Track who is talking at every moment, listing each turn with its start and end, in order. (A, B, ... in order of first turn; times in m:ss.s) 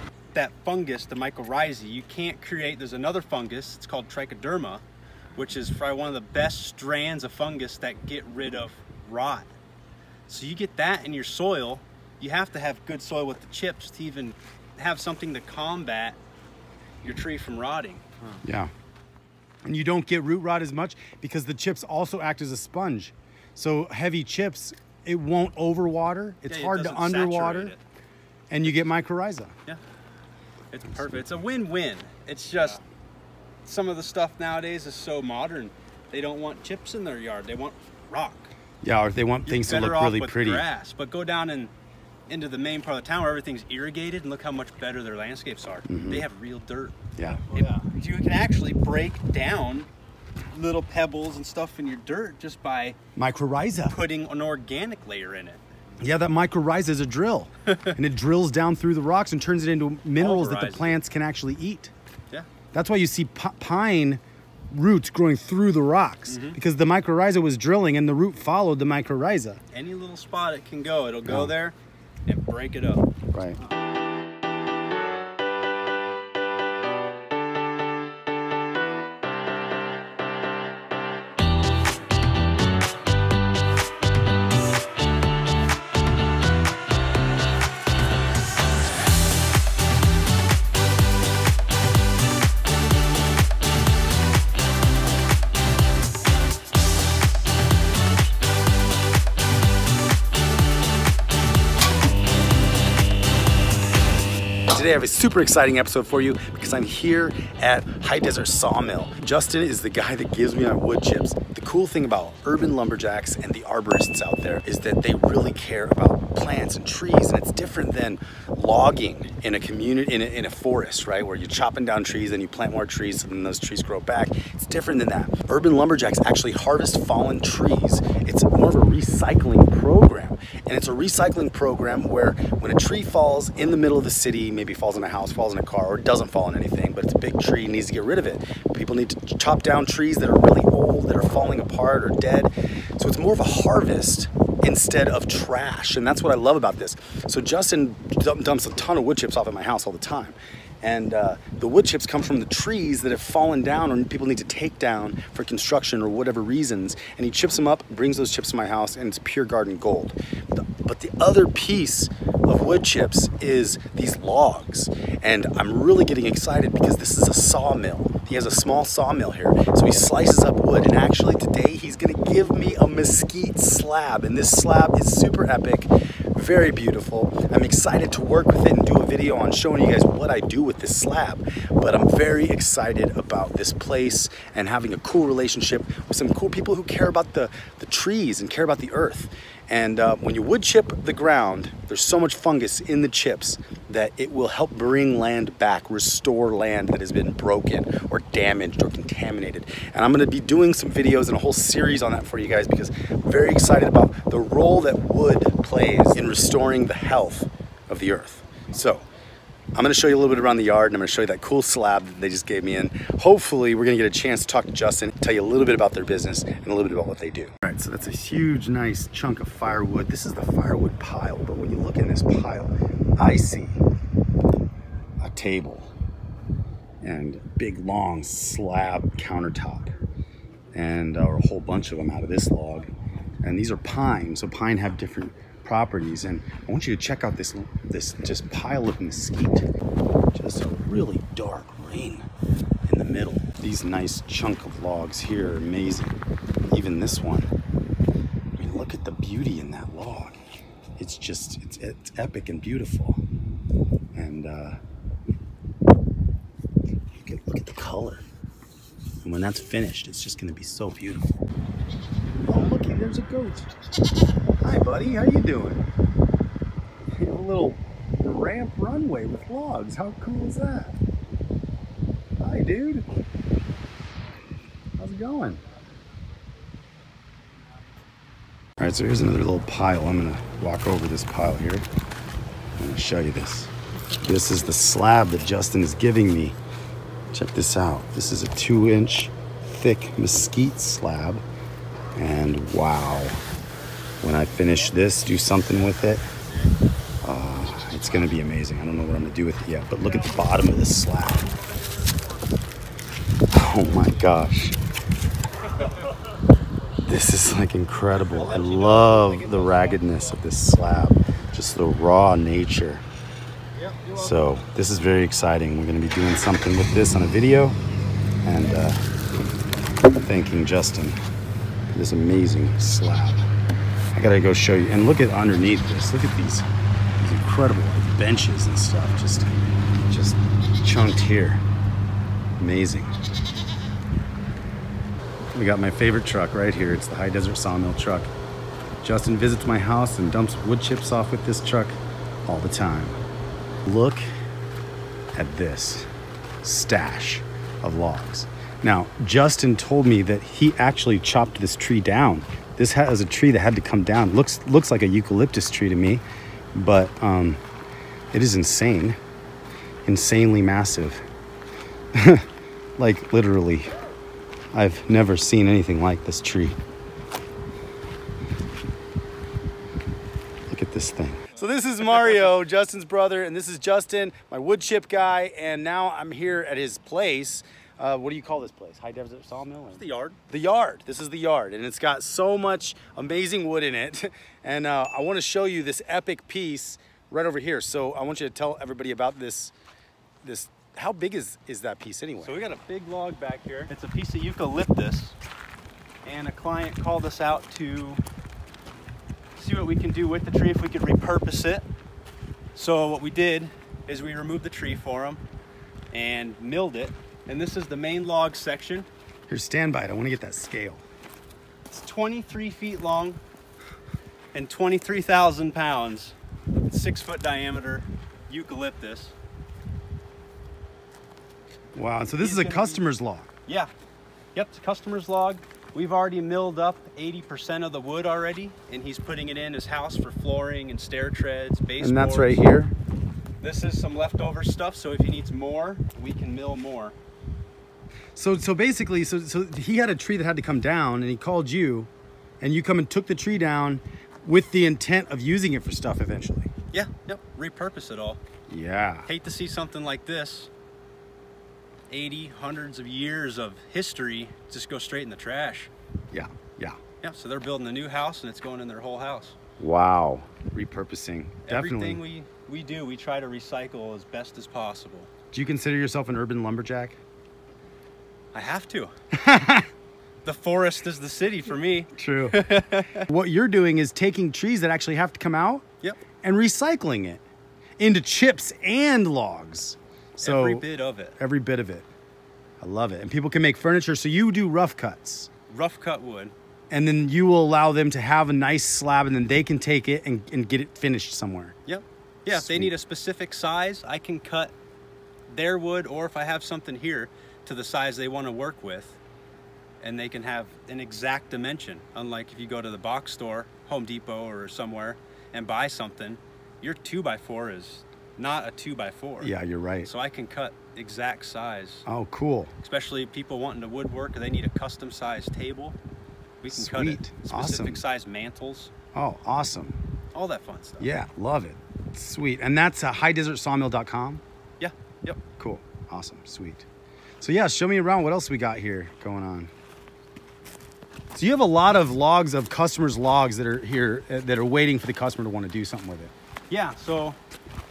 0:00.3-0:04.8 A
0:05.4-0:09.5 A
0:10.3-0:16.2 A
0:17.0-0:18.4 A
0:18.4-0:18.7 B
0:19.6-0:27.7 B
0:26.5-0:27.8 A
0:28.5-0:29.5 B
0:30.7-0:32.8 A
0:30.9-0:31.4 B
0:33.6-0:38.5 A
0:38.8-0:40.6 B
0:39.4-0:41.7 A
0:42.3-0:49.9 A
0:45.9-0:46.3 B
0:47.2-0:47.4 B
0:50.5-0:53.0 A
0:53.2-0:54.0 B
0:53.9-0:55.6 A
0:56.0-1:01.9 B
0:57.7-0:57.9 A
1:00.2-1:01.0 A
1:02.7-1:09.6 B
1:06.3-1:06.6 A
1:09.7-1:11.8 A
1:11.2-1:11.5 B
1:12.3-1:13.1 A
1:13.3-1:13.6 B
1:44.7-3:29.0 B
3:29.8-3:43.8 B
3:45.2-3:45.9 B
3:47.0-3:49.9 B
3:50.7-3:52.9 B
3:53.4-3:59.7 B
4:00.3-4:02.3 B
4:02.8-4:06.2 B
4:06.7-4:07.5 B
4:08.6-4:10.4 B
4:11.0-4:13.2 B
4:14.1-4:14.8 B
4:17.2-4:18.2 B
4:19.2-4:21.3 B
4:22.4-4:23.7 B
4:24.6-4:25.8 B
4:27.2-4:31.0 B
4:32.4-4:33.0 B
4:35.0-4:35.6 B
4:38.8-4:41.9 B
4:42.8-4:46.6 B
4:47.3-4:51.4 B
4:52.1-4:53.4 B
4:54.2-4:56.2 B
4:57.2-5:01.5 B
5:03.5-5:04.8 B
5:07.0-5:13.0 B
5:08.3-5:10.4 A
5:13.7-5:14.4 A
5:14.1-5:17.8 B
5:18.4-5:19.0 B
5:20.1-5:21.2 B
5:21.9-5:23.5 B
5:24.1-5:26.7 B
5:27.2-5:31.6 B
5:32.6-5:33.1 B
5:35.5-5:38.3 B
5:39.0-5:43.2 B
5:43.8-5:44.2 B
5:45.3-5:46.1 B
5:46.6-5:57.6 B
5:58.3-5:59.2 B
6:00.0-6:01.2 B
6:02.1-6:03.9 B
6:04.7-6:06.8 B
6:10.7-6:29.7 B
6:19.8-6:20.4 A
6:30.4-6:32.6 B
6:32.4-6:35.4 A
6:36.2-6:38.2 A
6:39.6-6:41.8 A
6:42.7-6:45.4 A
6:46.1-6:49.1 A
6:49.5-6:51.0 B
6:51.9-6:53.4 A
6:54.5-6:56.4 A
6:56.9-6:59.4 A
7:01.9-7:03.5 B
7:02.4-7:03.0 A
7:03.6-7:03.9 A
7:04.5-7:12.6 A
7:12.0-7:12.9 B
7:13.6-7:17.1 A
7:18.3-7:22.1 B
7:22.6-7:26.7 B
7:26.9-7:28.4 A
7:28.7-7:29.3 B
7:29.3-7:30.7 A
7:32.1-7:35.9 A
7:36.3-7:37.0 B
7:37.2-7:39.6 A
7:39.8-7:42.2 B
7:41.6-7:45.3 A
7:45.5-7:47.2 B
7:48.5-7:49.1 A
7:49.3-7:49.9 B
7:50.4-7:53.2 A
7:52.1-7:52.6 B
7:53.1-7:55.8 B
7:56.4-7:57.4 B
7:58.0-8:00.8 B
8:00.4-8:01.3 A
8:01.4-8:02.1 B
8:02.8-8:05.5 B
8:05.7-8:06.5 A
8:06.9-8:11.8 B
8:11.8-8:14.7 A
8:12.5-8:12.9 B
8:15.5-8:19.2 A
8:20.0-8:29.5 A
8:29.4-8:30.1 B
8:30.0-8:32.0 A
8:32.0-8:32.7 B
8:32.8-8:36.0 A
8:36.6-8:38.9 A
8:36.7-8:38.0 B
8:39.1-8:40.0 B
8:40.3-8:41.1 A
8:41.0-8:44.4 B
8:44.8-8:45.4 A
8:45.6-8:46.9 B
8:47.4-8:49.7 B
8:51.3-8:56.3 B
8:56.7-8:57.4 A